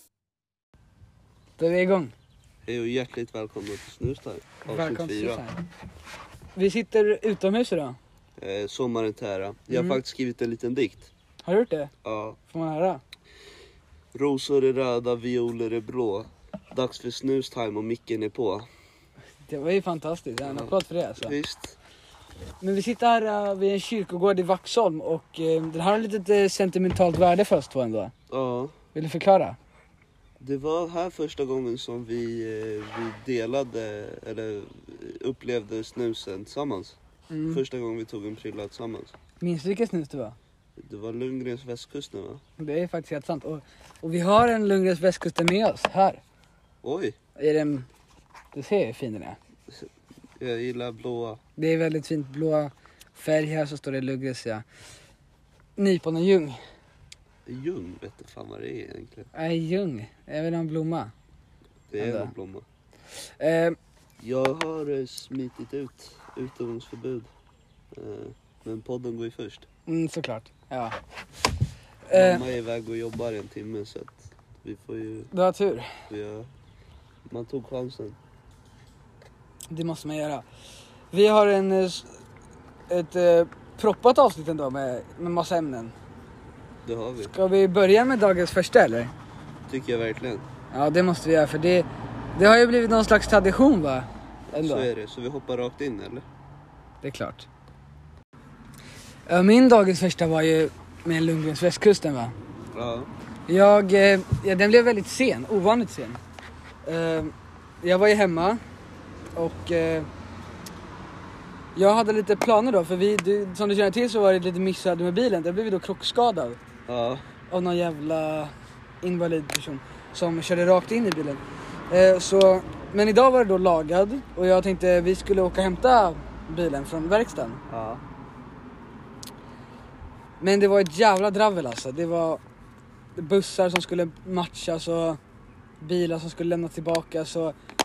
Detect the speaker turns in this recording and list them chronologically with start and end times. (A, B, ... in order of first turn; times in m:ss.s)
0:01.6-0:02.1 A
0:02.6-0:05.4 B
0:04.7-0:05.6 A
0:06.5-0:08.0 A
0:08.4-0:11.1 B
0:09.7-0:10.0 A
0:11.4-0:11.9 A
0:12.0-0:12.4 B
0:12.5-0:13.0 A
0:14.1-0:18.7 B
0:19.4-0:21.4 A
0:20.4-0:21.8 B
0:22.6-0:28.1 A
0:28.3-0:28.8 B
0:28.9-0:29.6 A
0:30.4-0:39.1 B
0:37.3-0:37.6 A
0:39.4-0:40.4 A
0:40.8-0:42.4 B
0:42.6-0:46.2 A
0:46.8-0:47.2 B
0:47.4-0:47.9 A
0:48.5-0:49.4 A
0:49.7-0:51.4 B
0:51.6-0:54.6 A
0:55.8-0:56.6 A
0:57.4-0:59.3 B
0:59.3-1:01.1 A
1:01.9-1:02.6 B
1:02.0-1:02.3 A
1:03.2-1:03.8 A
1:04.2-1:07.3 B
1:07.9-1:09.6 B
1:09.9-1:11.0 A
1:12.0-1:12.4 A
1:12.1-1:15.3 B
1:15.3-1:16.0 A
1:16.1-1:16.5 B
1:17.3-1:18.2 B
1:19.7-1:20.4 A
1:21.1-1:22.2 A
1:22.9-1:26.0 A
1:26.8-1:27.3 B
1:27.3-1:29.1 A
1:29.7-1:30.4 B
1:30.7-1:34.9 A
1:34.5-1:36.2 B
1:37.0-1:37.5 A
1:39.3-1:42.3 A
1:42.7-1:43.1 B
1:43.5-1:46.2 A
1:46.8-1:48.6 A
1:49.4-1:50.1 A
1:51.7-1:56.6 A
1:56.9-1:57.2 B
1:57.5-2:07.6 A
2:07.7-2:08.0 B
2:10.4-2:12.4 A
2:13.2-2:15.2 A
2:15.8-2:17.5 A